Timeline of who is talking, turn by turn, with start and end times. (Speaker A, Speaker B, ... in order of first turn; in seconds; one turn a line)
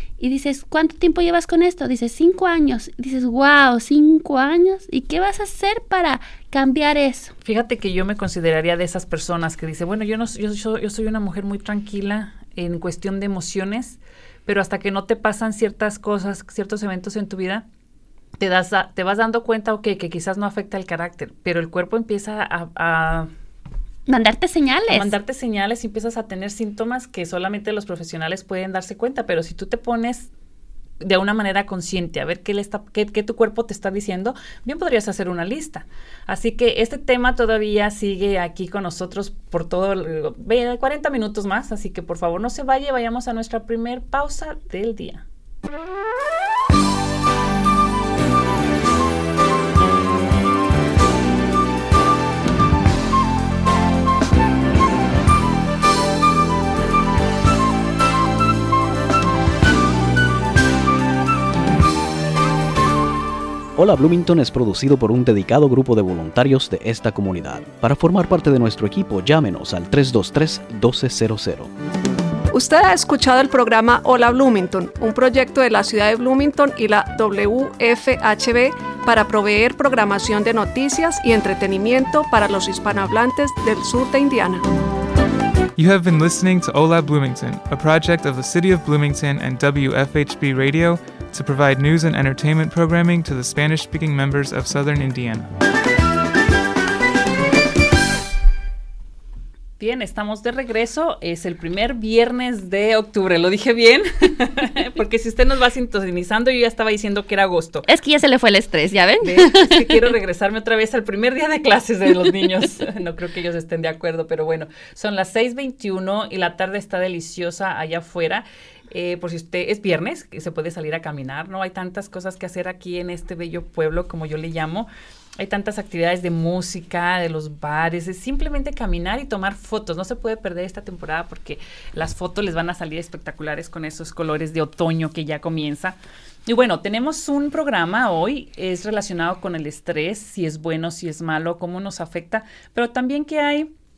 Speaker A: 0.2-7.3
Speaker B: 7.5-17.6
Speaker B: 18.4-23.3
Speaker A: 24.1-25.1
Speaker B: 24.9-30.3
Speaker B: 31.0-45.2
Speaker C: 63.8-71.7
Speaker D: 72.5-84.6
Speaker E: 85.8-95.5
Speaker B: 99.8-107.9
Speaker A: 107.9-110.0
Speaker B: 109.2-143.7